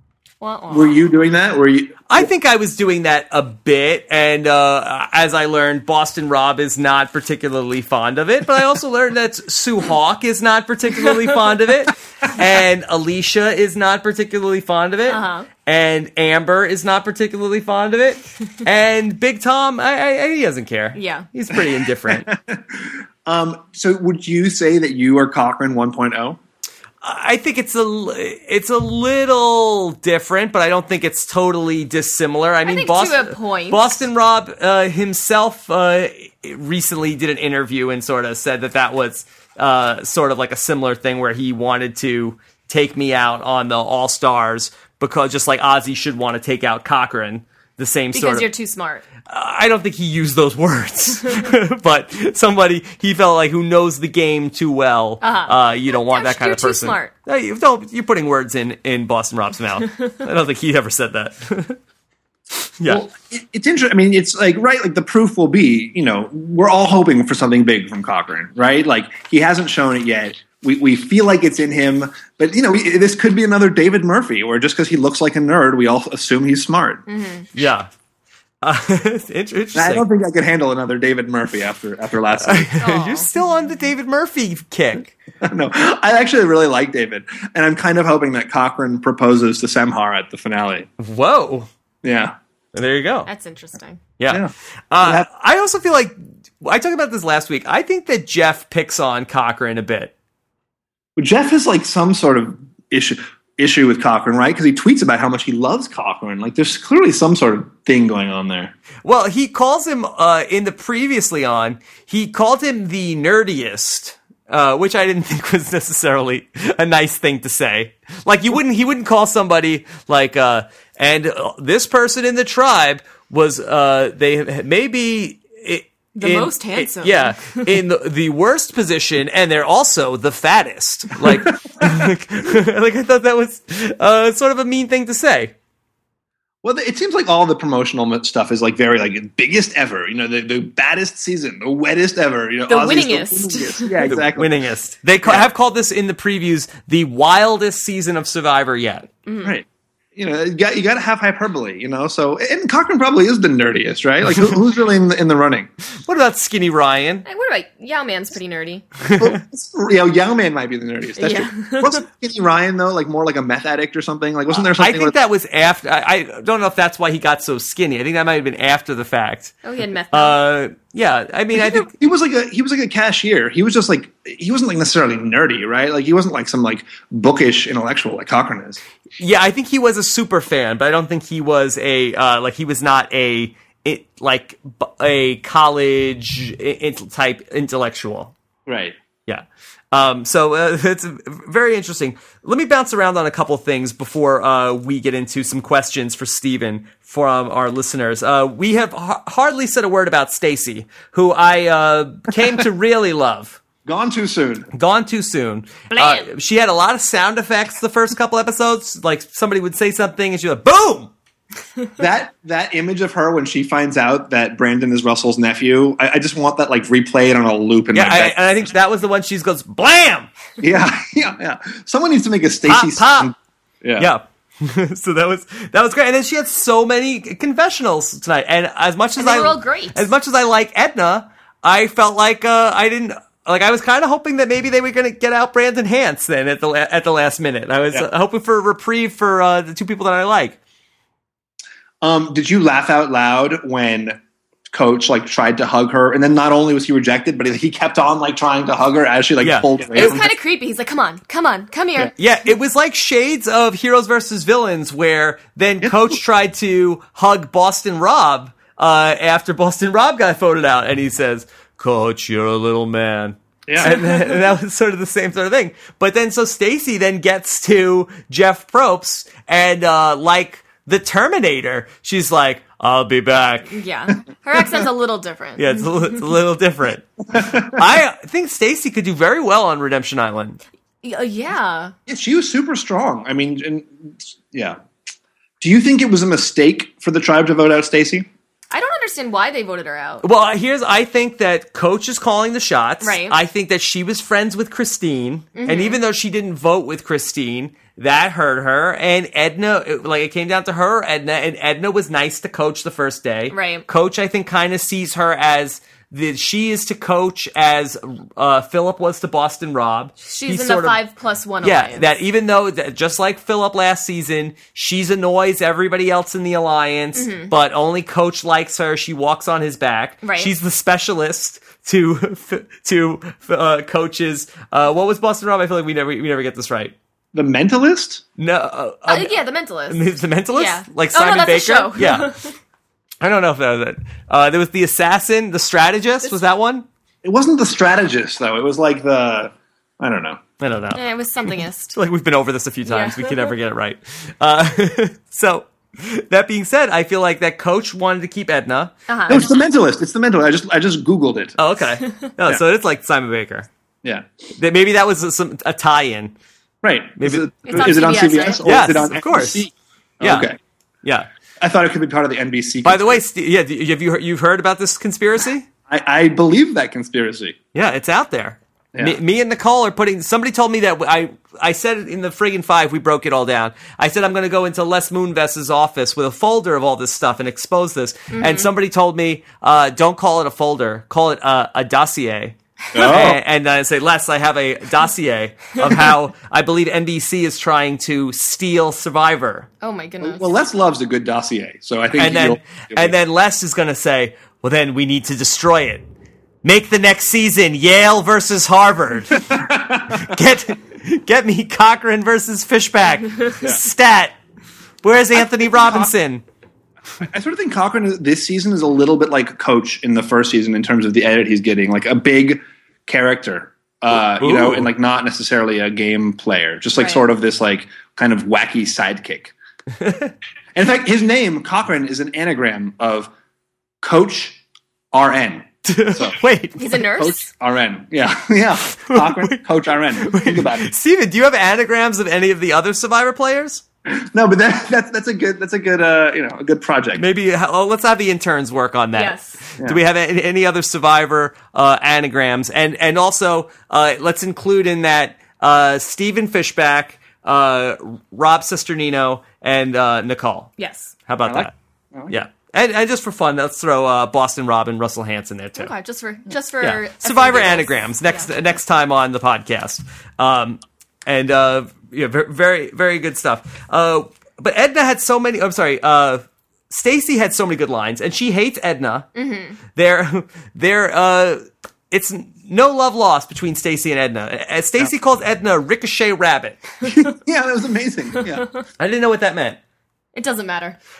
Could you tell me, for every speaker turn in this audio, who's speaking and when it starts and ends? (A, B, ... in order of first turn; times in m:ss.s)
0:00.4-0:01.0 A
0:00.7-0:02.3 B
0:02.1-0:22.3 C
0:15.1-0:15.5 A
0:21.0-0:21.3 A
0:21.5-0:26.4 B
0:27.0-0:48.5 C
0:32.6-0:33.8 A
0:48.1-0:49.0 A
0:49.3-1:01.8 C
0:55.2-0:57.1 A
1:02.8-1:03.0 C
1:02.9-1:17.0 B
1:17.1-1:17.5 A
1:17.5-1:17.9 C
1:18.6-1:20.0 C
1:19.7-1:22.7 B
1:22.4-1:25.1 C
1:22.8-1:23.3 A
1:25.4-1:30.9 B
1:31.0-1:31.7 C
1:32.0-1:32.3 B
1:32.7-1:33.3 C
1:33.3-1:34.0 A
1:34.2-1:40.1 C
1:34.3-1:35.3 B
1:41.2-1:48.7 B
1:49.0-2:15.5 C
2:06.2-2:07.8 A
2:11.3-2:12.1 B
2:16.6-2:24.5 B
2:22.7-2:24.0 A
2:24.3-2:29.1 C
2:29.3-2:29.6 A
2:30.2-2:35.7 B
2:36.0-2:37.2 C
2:37.2-2:38.8 A
2:39.0-2:39.3 C
2:39.2-2:45.2 B
2:41.2-2:42.0 A
2:44.6-2:49.6 C
2:49.6-2:50.4 A
2:50.1-2:51.9 C
2:51.5-2:58.8 B
2:59.2-3:08.3 C
3:08.7-3:09.0 B
3:09.3-3:23.6 C
3:23.9-3:24.7 B
3:24.7-3:31.1 C
3:25.9-3:26.3 A
3:32.0-3:38.6 B
3:37.9-3:40.3 C
3:40.6-3:44.1 B
3:42.7-3:43.3 C
3:44.0-4:00.6 C
3:49.2-3:50.1 A
4:02.0-4:04.2 B
4:04.7-4:10.3 B
4:09.4-4:10.2 C
4:09.9-4:12.1 A
4:12.2-4:33.8 C
4:15.8-4:16.2 B
4:23.7-4:24.0 B
4:33.7-4:36.2 A
4:35.6-4:37.1 C
4:37.3-4:37.8 B
4:37.6-4:40.6 C
4:41.0-4:41.9 A
4:42.1-4:44.8 B
4:45.6-4:48.3 B
4:48.7-4:50.2 A
4:50.2-5:11.0 C
4:53.0-4:53.4 A
4:55.6-4:56.0 A
5:03.5-5:03.9 A
5:10.2-5:12.1 A
5:11.6-5:26.9 C
5:17.2-5:17.5 A
5:20.2-5:20.5 A
5:27.3-5:28.2 B
5:28.4-5:32.3 C
5:29.0-5:32.6 A
5:33.2-5:36.9 C
5:37.2-5:40.4 B
5:40.6-5:41.0 C
5:40.9-5:42.0 A
5:41.9-5:49.0 C
5:42.9-5:43.5 A
5:49.1-5:49.4 A
5:49.3-5:51.6 B
5:51.6-5:53.7 C
5:54.6-5:56.3 C
5:56.8-6:00.6 B
5:57.2-5:58.0 C
5:57.6-5:58.7 A
5:58.6-5:59.6 C
6:00.2-6:00.5 C
6:01.6-6:03.2 B
6:02.8-6:05.7 C
6:05.9-6:07.6 B
6:07.7-6:29.7 C
6:08.9-6:09.2 B
6:18.3-6:18.7 A
6:22.9-6:23.4 B
6:29.8-6:30.5 A
6:30.2-6:33.2 B
6:32.2-6:36.0 C
6:36.6-6:44.3 C
6:39.3-6:40.4 B
6:45.0-6:46.4 C
6:45.4-6:46.1 B
6:47.2-6:59.5 B
6:54.4-6:54.9 C
6:57.0-6:57.2 A
7:00.0-7:00.3 C
7:00.7-7:03.3 B
7:04.0-7:04.6 B
7:05.1-7:06.4 B
7:05.9-7:07.0 C
7:06.8-7:07.5 A
7:07.2-7:10.9 B
7:09.0-7:13.8 C
7:14.1-7:17.2 B
7:17.2-7:30.7 C
7:19.1-7:19.6 A
7:30.8-7:31.1 A
7:31.3-7:31.7 C
7:31.4-7:32.4 B
7:32.3-7:35.9 C
7:35.8-7:38.5 A
7:36.8-7:49.3 C
7:49.3-7:49.8 A
7:49.9-7:56.9 C
7:57.1-7:58.6 B
7:59.0-7:59.8 C
8:00.3-8:01.0 A